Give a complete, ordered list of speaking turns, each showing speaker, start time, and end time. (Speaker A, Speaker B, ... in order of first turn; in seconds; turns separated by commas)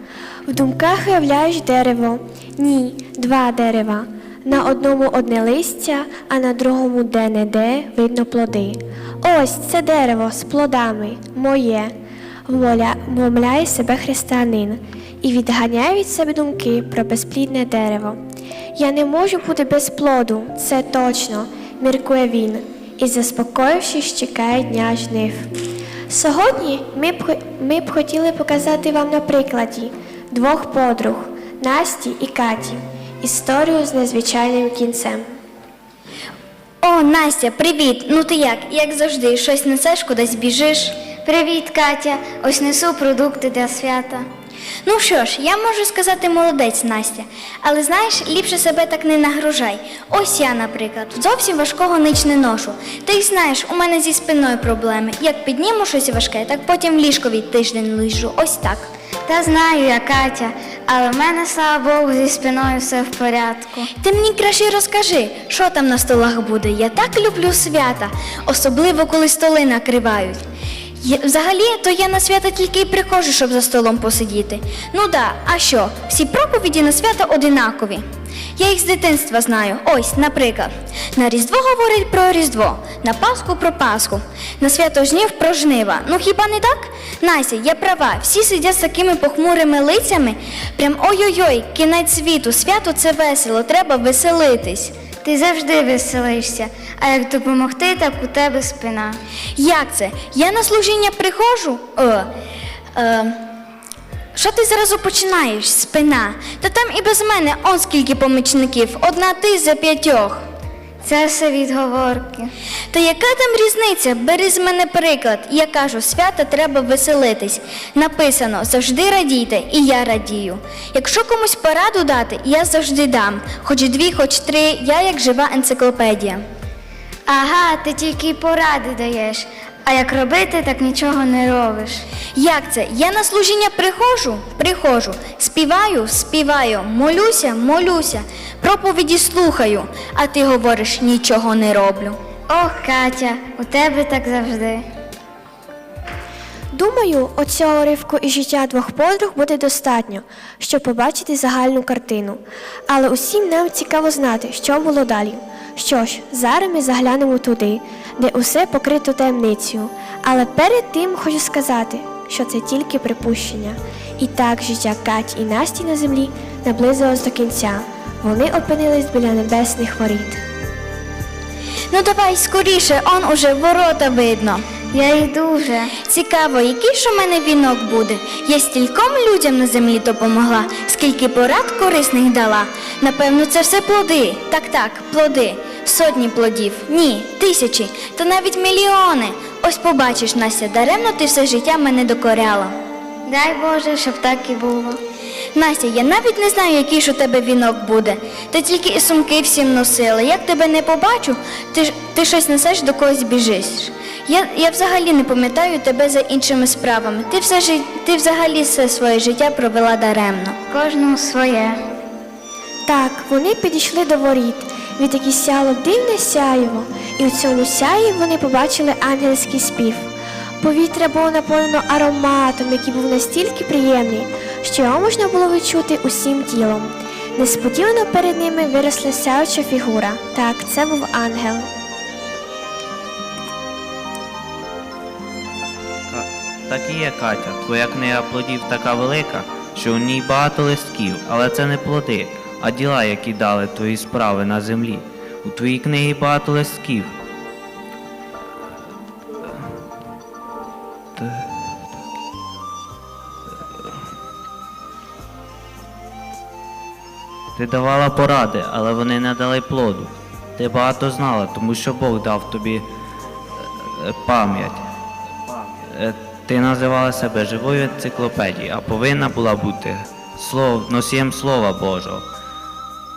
Speaker A: 0.5-11.9, Speaker A: 12.5-18.2, Speaker A: 18.8-25.5, Speaker A: 26.1-35.3, Speaker B: 36.8-41.1, Speaker C: 41.2-44.2, Speaker B: 44.8-58.9, Speaker C: 59.2-63.9, Speaker B: 63.9-70.4, Speaker B: 71.0-78.0, Speaker B: 78.6-94.9, Speaker C: 95.2-99.2, Speaker B: 99.5-102.3, Speaker B: 102.9-103.4, Speaker B: 104.3-110.4, Speaker C: 111.0-112.5, Speaker B: 112.9-126.4, Speaker C: 127.3-132.0, Speaker B: 132.3-142.2, Speaker C: 142.5-144.8, Speaker A: 146.7-170.4, Speaker B: 171.9-174.8, Speaker C: 174.9-175.9, Speaker B: 175.9-192.7, Speaker C: 193.2-195.0, Speaker B: 195.5-210.6, Speaker C: 210.7-211.8, Speaker A: 212.8-231.7, Speaker D: 236.1-247.2, Speaker D: 249.4-249.7, Speaker D: 251.2-251.6, Speaker D: 257.6-262.9, Speaker D: 263.8-264.9, Speaker D: 265.9-272.2